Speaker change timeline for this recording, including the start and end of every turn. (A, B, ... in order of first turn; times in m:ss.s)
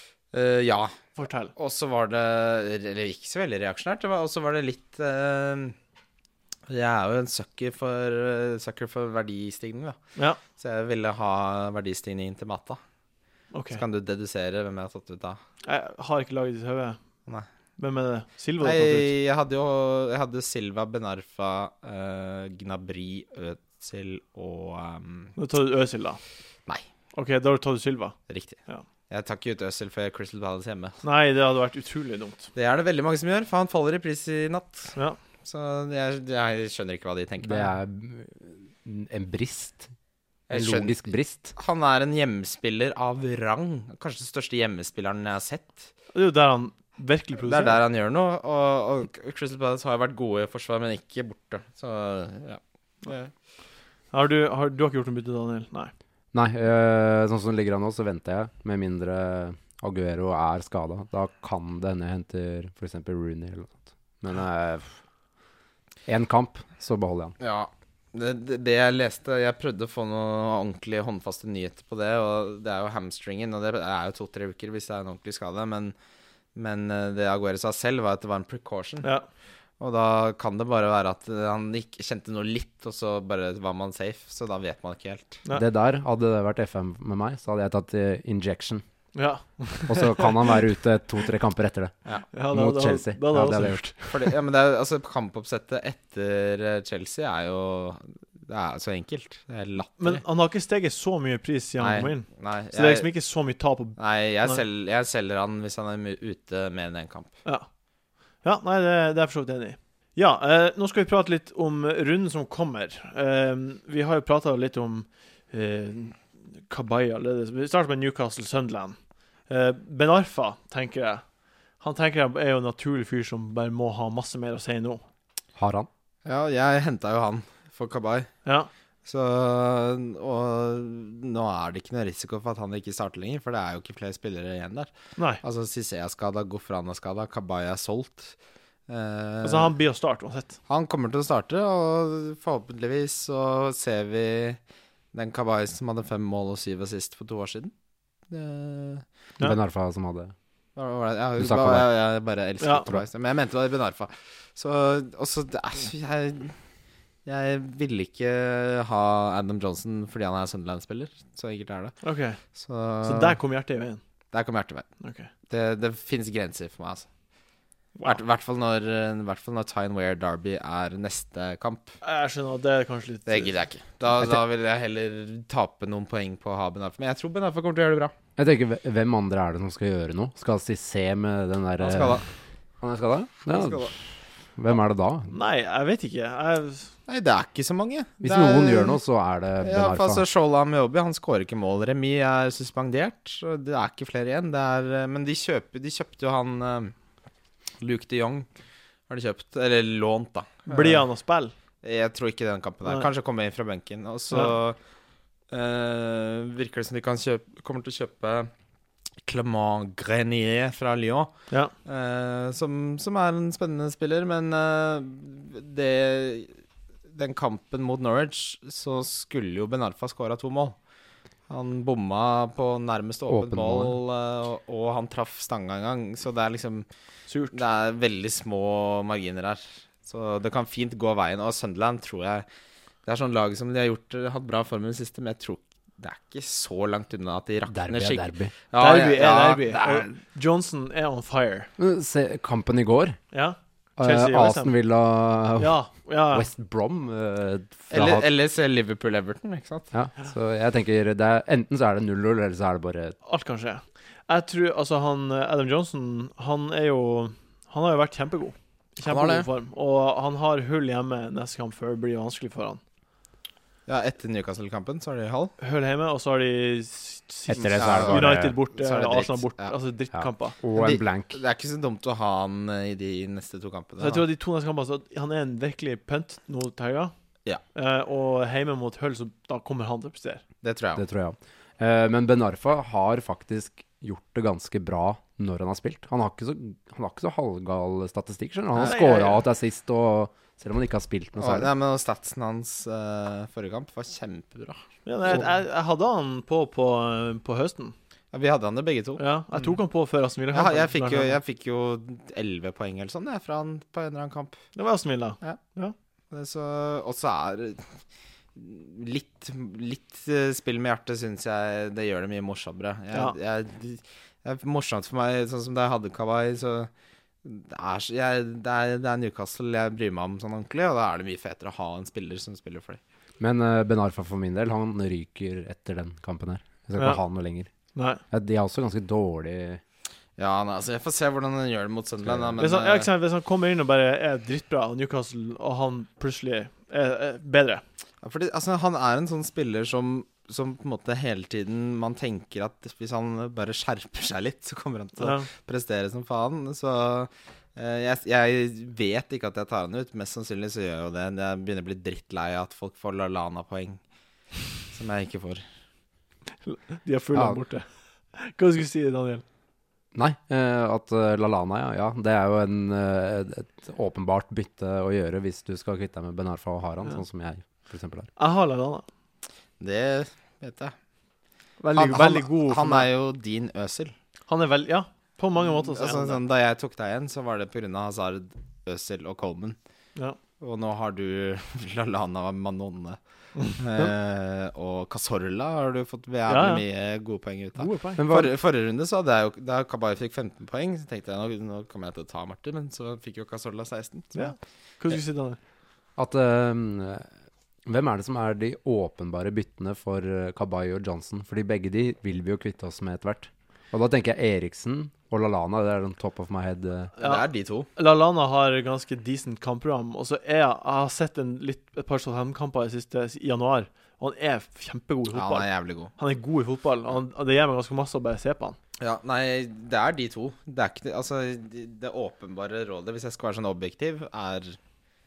0:00.3-0:01.0 A
0:01.2-0:01.5 B
0:01.6-0:05.8 A
0:06.7-0:10.0 A
0:10.6-0:12.8 A
0:13.5-0:13.8 B
0:13.7-0:15.4 A
0:15.6-0:17.0 B
0:17.8-0:19.1 B
0:18.6-0:25.4 A
0:25.4-0:26.2 B
0:27.1-0:28.8 B
0:28.3-0:28.6 A
0:29.1-0:31.0 A
0:31.0-0:32.5 B
0:32.6-0:37.8 A
0:37.4-0:39.9 C
0:40.5-0:41.0 A
0:40.5-0:41.5 C
0:41.5-0:45.9 A
0:46.1-0:47.8 B
0:47.4-0:53.3 A
0:54.1-0:55.9 B
0:56.3-1:04.9 C
1:06.1-1:07.4 C
1:07.4-1:15.9 A
1:16.6-1:19.1 A
1:19.8-1:25.4 A
1:25.5-1:28.8 C
1:29.2-1:30.6 B
1:29.9-1:31.9 C
1:32.3-1:34.1 B
1:32.5-1:34.1 C
1:34.1-1:40.2 A
1:40.0-1:44.6 B
1:41.8-1:43.1 A
1:44.0-1:47.3 A
1:48.4-1:59.0 B
1:59.5-2:01.2 B
2:01.8-2:05.0 B
2:05.6-2:05.9 C
2:06.2-2:08.3 A
2:08.4-2:08.7 B
2:09.0-2:18.4 A
2:15.2-2:15.4 B
2:18.9-2:19.7 A
2:19.4-2:20.6 B
2:20.7-2:24.6 A
2:25.1-2:27.7 A
2:28.3-2:29.1 A
2:29.4-2:30.3 C
2:30.8-2:36.6 A
2:31.4-2:31.9 C
2:32.6-2:32.9 B
2:37.3-2:42.0 A
2:42.0-2:42.4 B
2:42.6-2:43.4 A
2:43.0-2:44.0 B
2:44.3-2:44.9 A
2:45.0-2:45.3 B
2:45.5-2:47.1 A
2:48.0-2:52.0 A
2:52.0-2:53.6 B
2:53.3-2:58.2 A
2:58.4-3:02.2 C
3:01.8-3:02.3 A
3:02.8-3:04.0 C
3:03.5-3:03.9 A
3:04.6-3:05.3 C
3:05.3-3:06.9 B
3:07.1-3:09.0 A
3:08.2-3:10.2 C
3:09.6-3:16.9 A
3:17.8-3:18.5 A
3:19.1-3:21.0 A
3:20.7-3:21.5 B
3:21.8-3:24.8 A
3:25.5-3:28.5 A
3:29.2-3:31.3 A
3:31.8-3:36.5 A
3:37.1-3:40.8 A
3:41.5-3:46.9 A
3:43.3-3:44.0 C
3:47.3-3:47.6 B
3:47.5-3:52.5 A
3:53.1-4:00.1 A
3:57.7-3:58.5 C
3:58.8-4:01.7 B
4:01.8-4:03.2 C
4:03.3-4:04.8 B
4:04.0-4:05.8 C
4:05.6-4:06.5 B
4:06.3-4:08.3 C
4:07.9-4:09.9 A
4:09.9-4:13.2 C
4:13.2-4:22.8 B
4:19.0-4:19.5 A
4:23.9-4:25.5 A
4:25.6-4:30.6 B
4:27.5-4:28.6 C
4:27.6-4:29.7 A
4:30.1-4:31.4 C
4:30.7-4:34.3 A
4:34.0-4:37.1 B
4:37.7-4:40.4 B
4:40.6-4:41.0 A
4:41.0-4:51.7 C
4:48.8-4:49.0 A
4:48.8-4:49.4 B
4:51.4-4:55.4 A
4:55.1-4:58.0 B
4:58.3-4:59.8 A
4:59.2-5:01.4 B
5:00.5-5:04.6 A
5:04.8-5:06.0 B
5:06.3-5:07.9 A
5:08.6-5:16.9 A
5:17.4-5:23.0 A
5:23.4-5:27.7 C
5:28.0-5:28.2 B
5:28.3-5:29.8 C
5:30.4-5:33.1 A
5:32.2-5:32.6 C
5:32.6-5:37.8 B
5:38.2-5:54.0 A
5:45.2-5:45.5 B
5:54.9-5:55.6 A
5:56.6-5:59.4 B
5:57.3-5:57.6 C
6:00.1-6:08.3 C
6:08.4-6:09.1 B
6:09.8-6:10.9 A
6:11.8-6:13.1 B
6:12.0-6:14.1 A
6:14.5-6:16.4 B
6:15.7-6:19.8 A
6:20.6-6:23.2 A
6:23.7-6:34.5 A
6:26.5-6:26.8 B
6:27.8-6:28.2 B
6:28.2-6:28.5 C
6:34.3-6:35.6 B
6:36.2-6:37.3 C
6:37.9-6:47.1 C
6:47.2-6:47.9 A
6:47.2-6:58.8 B
6:55.3-6:56.1 A
6:59.0-7:04.8 A